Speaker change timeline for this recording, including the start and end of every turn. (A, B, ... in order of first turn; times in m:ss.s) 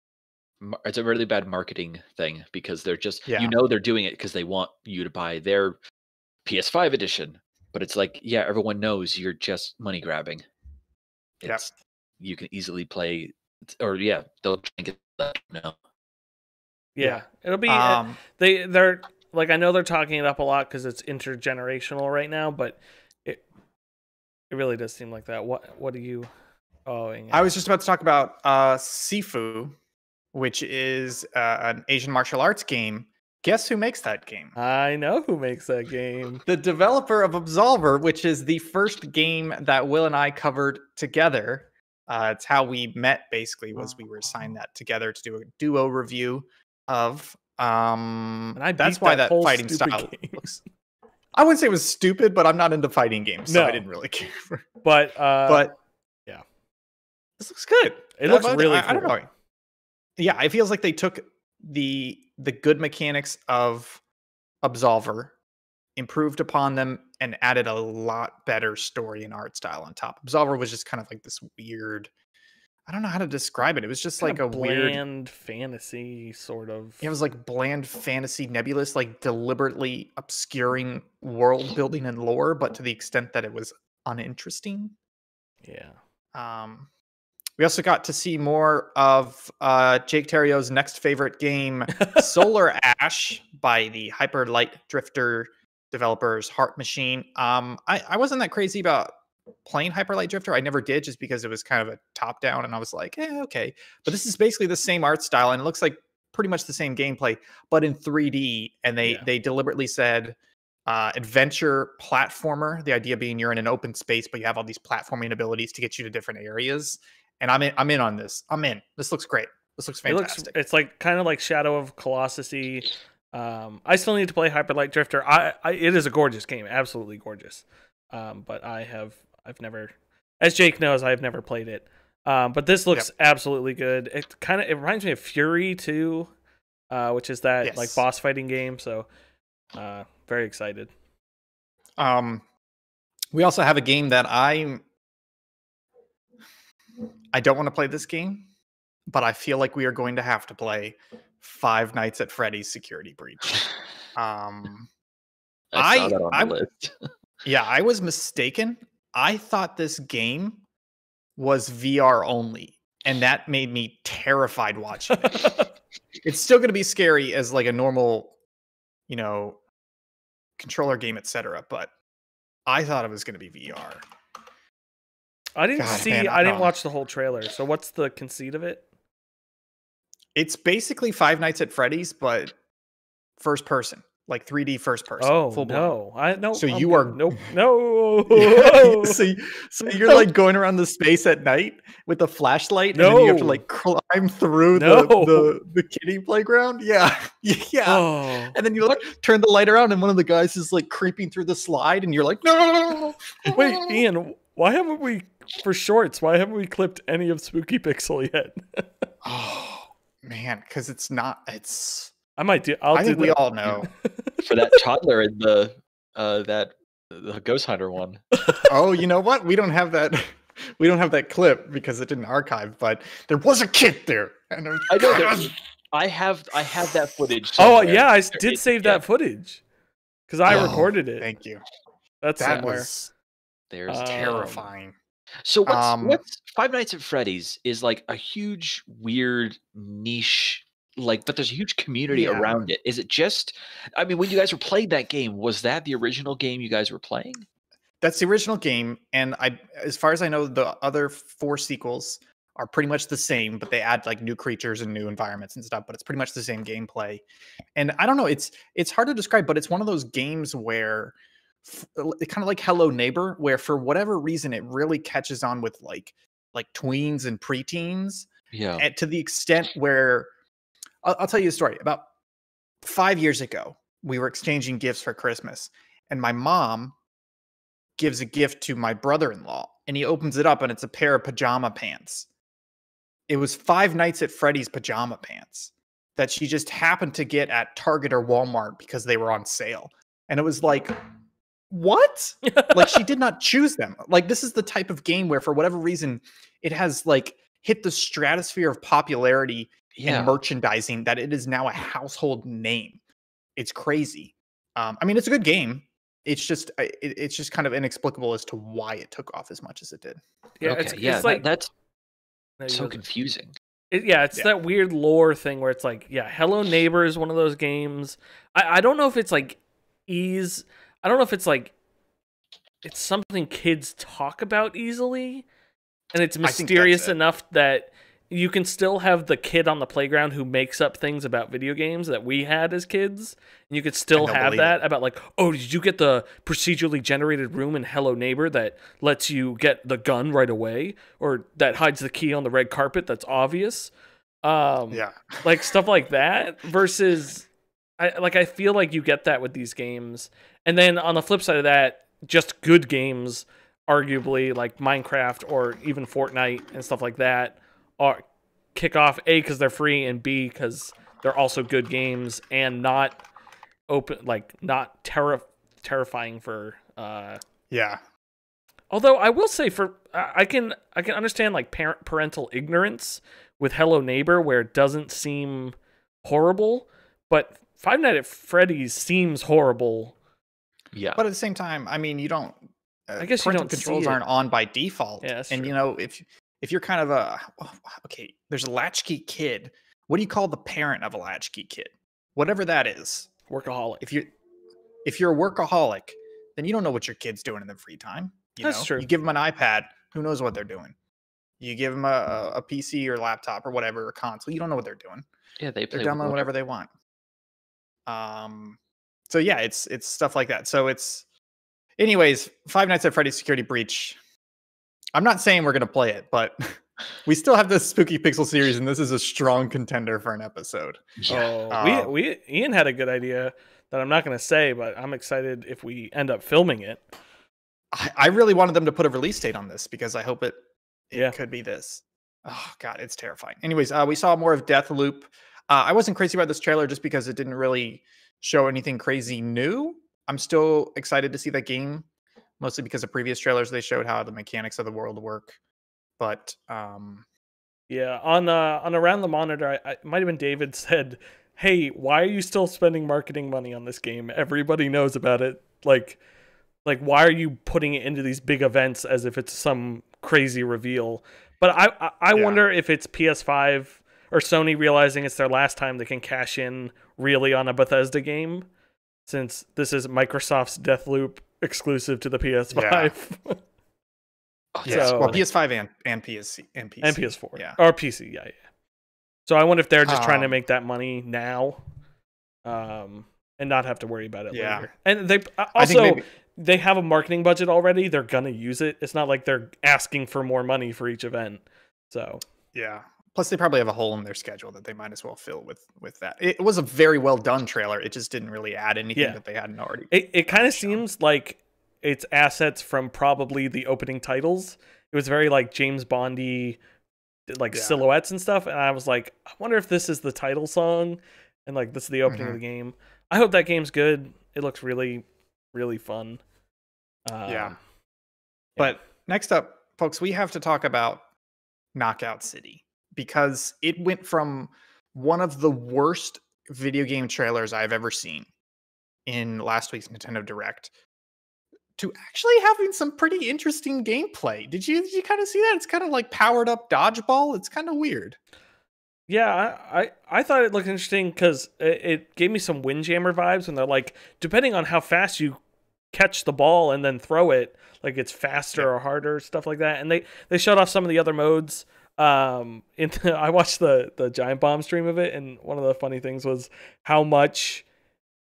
0:00.6-0:05.8 A
0:03.3-0:03.6 B
0:06.4-0:10.4 A
0:11.4-0:11.7 A
0:12.2-0:15.8 A
0:17.0-0:23.4 C
0:17.0-0:18.2 B
0:24.5-0:26.3 C
0:26.9-0:27.5 C
0:27.3-0:29.8 B
0:30.3-0:34.6 B
0:34.6-0:36.4 C
0:36.5-0:50.6 B
0:48.6-0:50.5 C
0:51.3-0:54.6 B
0:53.5-0:53.8 C
0:54.8-0:55.7 C
0:55.5-0:55.8 B
0:57.4-0:59.3 B
0:58.2-0:59.2 C
1:00.2-1:04.0 B
1:04.6-1:05.3 B
1:06.0-1:12.1 B
1:12.9-1:15.0 B
1:14.2-1:17.1 C
1:17.0-1:25.0 B
1:25.6-1:26.0 C
1:26.3-1:26.9 B
1:27.6-1:39.1 B
1:31.9-1:32.4 C
1:39.6-2:00.5 B
2:00.1-2:16.3 C
2:16.9-2:19.1 C
2:17.6-2:18.0 B
2:19.7-2:20.9 C
2:22.0-2:22.4 B
2:23.3-2:24.8 B
2:27.3-2:28.5 B
2:29.1-2:33.6 B
2:34.2-2:34.9 B
2:35.7-2:36.9 A
2:35.8-2:36.6 B
2:37.4-2:40.6 B
2:41.4-2:45.5 B
2:45.1-2:45.7 C
2:46.2-2:48.4 B
2:49.1-2:49.6 B
2:50.6-2:51.9 B
2:52.7-2:54.0 B
2:55.6-2:58.8 C
2:55.8-2:56.7 B
3:00.4-3:02.6 B
3:03.4-3:05.9 B
3:05.2-3:09.2 C
3:06.6-3:07.4 B
3:08.3-3:24.0 B
3:09.8-3:10.3 C
3:12.9-3:13.6 C
3:14.8-3:15.5 C
3:17.9-3:18.6 C
3:23.4-3:29.1 C
3:29.2-3:32.2 B
3:32.4-3:34.8 C
3:32.9-3:33.9 B
3:34.4-3:38.2 A
3:38.4-3:38.7 C
3:38.7-3:45.5 B
3:44.9-3:49.0 A
3:47.6-3:49.6 C
3:50.3-3:51.3 C
3:50.5-3:51.6 B
3:52.2-3:52.9 C
3:52.4-3:53.1 B
3:53.7-3:54.6 A
3:53.9-3:54.6 C
3:54.1-3:55.0 B
3:55.4-4:07.4 A
3:55.7-3:56.2 B
4:02.1-4:02.6 B
4:08.0-4:17.2 B
4:17.8-4:30.3 B
4:28.5-4:28.8 A
4:31.0-4:32.0 B
4:32.8-4:37.0 B
4:38.0-4:42.3 B
4:43.3-4:51.0 B
4:51.7-5:03.0 B
4:52.5-4:53.0 C
5:00.0-5:00.4 A
5:03.6-5:10.2 B
5:10.6-5:11.5 C
5:10.6-5:11.7 A
5:12.6-5:13.0 C
5:12.7-5:13.6 A
5:13.9-5:21.8 C
5:22.8-5:25.4 C
5:26.1-5:43.9 C
5:26.4-5:27.2 B
5:34.1-5:34.8 B
5:44.4-5:47.5 C
5:44.9-5:45.4 B
5:48.0-5:58.2 C
5:58.8-6:03.2 C
6:03.9-6:07.4 C
6:07.7-6:08.0 B
6:08.9-6:20.2 C
6:20.9-6:21.2 A
6:21.2-6:33.3 B
6:23.2-6:24.2 C
6:25.2-6:25.7 C
6:33.5-6:34.1 C
6:34.0-6:34.3 B
6:35.0-6:41.0 B
6:38.6-6:39.1 C
6:41.6-6:45.3 B
6:45.6-6:46.5 A
6:45.9-6:46.9 B
6:48.1-6:48.8 B
6:49.3-6:51.3 B
6:52.0-6:54.2 B
6:55.1-7:02.1 B
7:01.2-7:01.5 A
7:01.3-7:07.0 C
7:07.9-7:10.6 B
7:11.1-7:22.1 B
7:22.6-7:25.6 B
7:26.2-7:27.2 B
7:27.9-7:36.2 C
7:36.8-7:48.7 C
7:42.4-7:42.6 B
7:49.3-7:53.6 C
7:52.7-7:53.1 B
7:54.7-7:55.4 A
7:54.8-7:55.4 C
7:54.8-7:57.8 B
7:57.0-7:58.6 C
7:59.5-8:01.8 C
8:00.0-8:00.6 B
8:02.6-8:12.4 C
8:04.5-8:04.9 B
8:05.8-8:06.2 B
8:12.7-8:21.0 B
8:19.2-8:19.4 C
8:20.1-8:26.8 C
8:27.5-8:36.4 C
8:27.7-8:28.0 B
8:32.3-8:32.6 B
8:37.3-8:37.8 C
8:37.5-8:37.8 B
8:38.8-8:41.2 B
8:42.0-8:48.5 B
8:49.3-8:50.9 B
8:52.0-8:58.4 B
8:59.3-9:05.6 C
9:06.1-9:17.8 C